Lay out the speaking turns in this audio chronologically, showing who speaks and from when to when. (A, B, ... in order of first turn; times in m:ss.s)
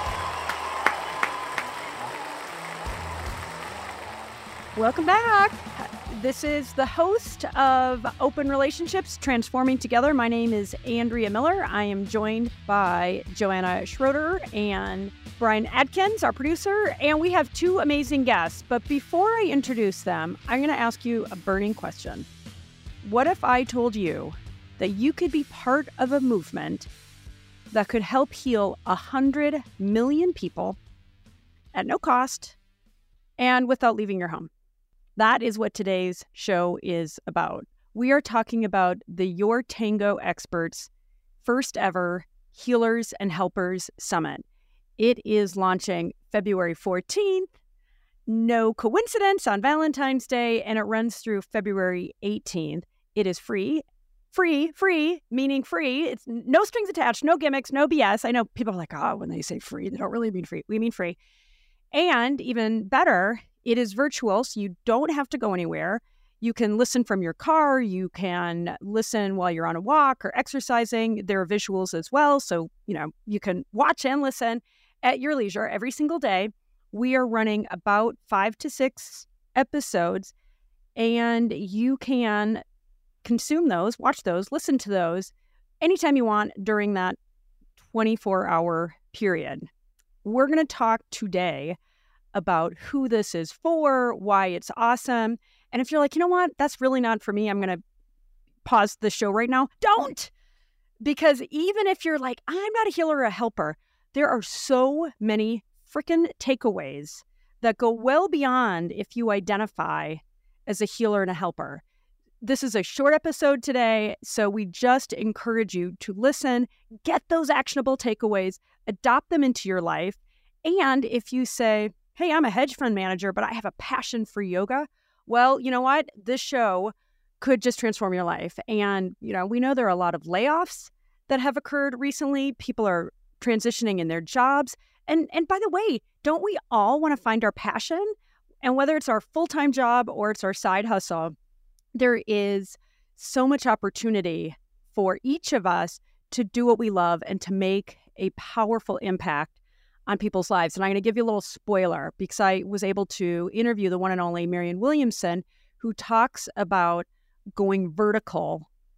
0:04.7-0:22.3 A
0:23.0-0:26.9 A
0:27.7-0:30.8 A
0:31.7-0:32.6 A
0:33.4-0:34.5 A
0:35.2-0:40.9 A
0:41.4-0:44.4 A
0:45.0-0:47.5 A
0:48.3-1:01.2 A
1:01.9-1:20.3 A
1:21.0-1:22.6 A
1:23.2-1:27.2 A
1:27.9-1:29.7 A
1:30.2-1:31.8 A
1:32.3-1:37.8 A
1:38.6-1:40.3 A
1:41.0-1:51.8 A
1:52.4-2:21.3 A
2:21.9-2:29.5 A
2:30.1-2:38.7 A